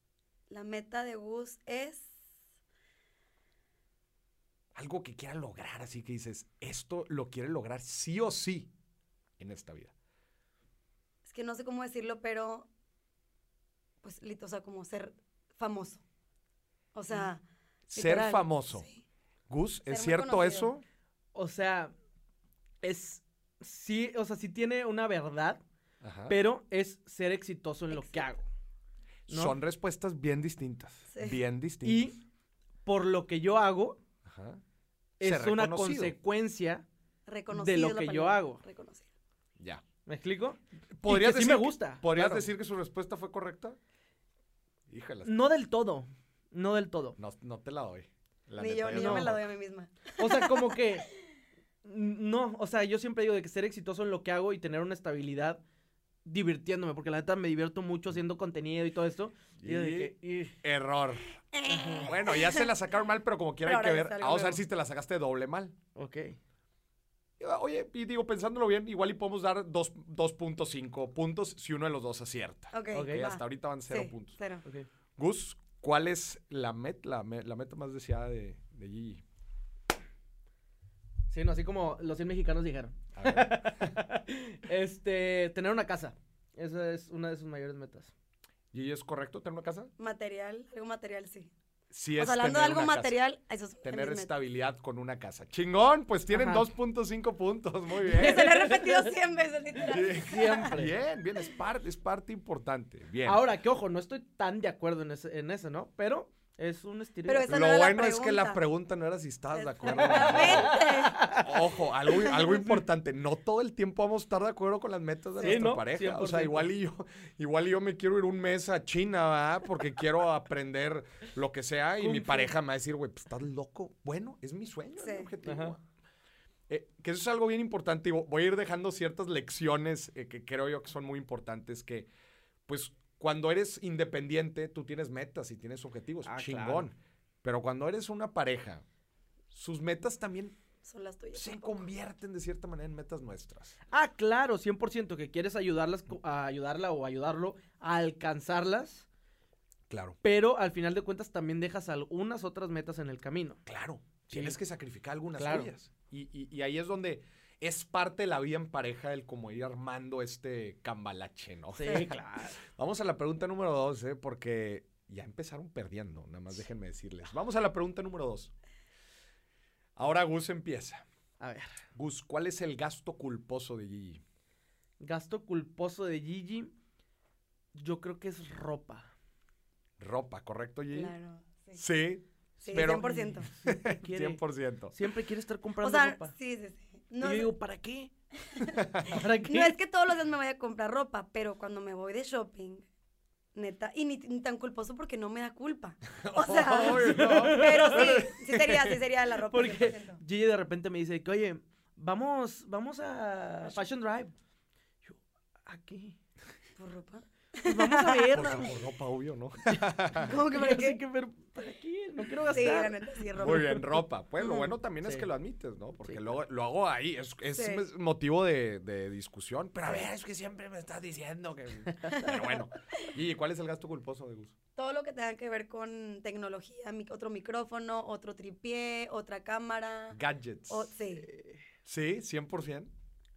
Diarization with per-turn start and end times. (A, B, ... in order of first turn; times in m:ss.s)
0:00.5-0:02.1 A
0:04.8-0:08.7 B
0:09.4-0:09.9 B
0:11.2-0:12.7 A
0:14.0-0:16.0 A
0:16.9-0:17.4 A
0:17.9-0:18.9 B
0:18.0-0:19.0 A
0:19.5-0:20.8 B
0:19.9-0:20.7 A
0:21.4-0:21.9 C
0:22.8-0:25.6 C
0:26.0-0:26.4 B
0:26.3-0:28.4 C
0:27.9-0:28.3 A
0:29.3-0:32.1 B
0:29.3-0:29.6 C
0:31.8-0:32.2 C
0:32.8-0:34.0 C
0:34.2-0:34.6 B
0:35.2-0:36.8 C
0:35.2-0:36.2 B
0:37.3-0:39.1 A
0:37.5-0:38.6 C
0:40.1-0:42.5 C
0:41.0-0:43.8 B
0:44.9-0:45.3 B
0:45.2-0:47.2 C
0:47.2-0:49.4 B
0:48.6-0:50.8 A
0:48.9-0:49.3 C
0:50.2-0:51.1 C
0:51.8-0:55.6 C
0:56.2-1:00.6 C
0:59.6-1:01.3 B
1:01.5-1:02.7 A
1:01.7-1:02.1 C
1:02.0-1:05.8 B
1:03.6-1:04.6 A
1:06.0-1:06.4 C
1:07.4-1:14.4 B
1:12.7-1:14.6 A
1:12.9-1:13.3 C
1:15.2-1:19.2 B
1:21.3-1:28.1 C
1:23.2-1:24.0 B
1:28.7-1:29.9 B
1:30.0-1:31.5 A
1:31.9-1:33.2 B
1:32.2-1:34.3 A
1:33.8-1:38.5 B
1:36.3-1:36.6 C
1:38.1-1:39.2 C
1:38.1-1:40.3 A
1:39.8-1:43.4 B
1:40.1-1:40.9 C
1:43.2-1:47.5 C
1:47.3-1:48.6 A
1:47.5-1:50.8 B
1:49.5-1:51.3 A
1:49.9-1:51.5 C
1:51.4-2:05.8 B
1:52.2-1:52.8 A
1:55.4-1:55.6 A
1:55.4-1:56.7 C
2:02.0-2:02.5 C
2:05.0-2:05.3 A
2:05.4-2:05.7 C
2:06.7-2:12.1 B
2:12.7-2:18.8 B
2:16.3-2:16.9 C
2:19.5-2:20.6 B
2:20.8-2:21.9 A
2:21.3-2:23.8 B
2:23.9-2:29.0 C
2:29.9-2:30.2 B
2:30.2-2:33.6 C
2:33.7-2:48.5 B
2:34.3-2:34.6 C
2:35.4-2:35.7 C
2:41.8-2:42.6 C
2:41.8-2:42.1 A
2:50.0-2:51.0 B
2:51.4-2:51.8 C
2:51.9-2:54.2 B
2:55.0-2:56.7 C
2:57.8-2:59.1 C
3:00.0-3:01.1 B
3:00.9-3:01.8 A
3:01.8-3:05.0 B
3:02.6-3:03.5 A
3:02.6-3:04.4 C
3:04.9-3:06.3 C
3:05.8-3:07.5 A
3:07.2-3:08.1 C
3:08.4-3:08.8 A
3:08.7-3:09.1 B
3:09.0-3:09.8 C
3:09.4-3:12.9 A
3:13.6-3:20.2 A
3:16.1-3:18.9 B
3:16.9-3:18.3 C
3:19.5-3:24.3 C
3:25.0-3:26.2 C
3:26.8-3:28.4 A
3:27.6-3:28.7 C
3:28.3-3:30.3 B
3:29.7-3:33.8 C
3:30.2-3:31.0 A
3:32.5-3:33.8 A
3:33.4-3:44.5 B
3:34.4-3:34.7 A
3:35.0-3:35.3 C
3:36.0-3:36.3 C
3:37.6-3:37.8 A
3:42.2-3:42.6 A
3:44.8-3:50.2 A
3:50.1-3:50.9 B
3:50.7-3:51.3 A
3:51.3-3:51.6 C
3:51.8-3:52.9 B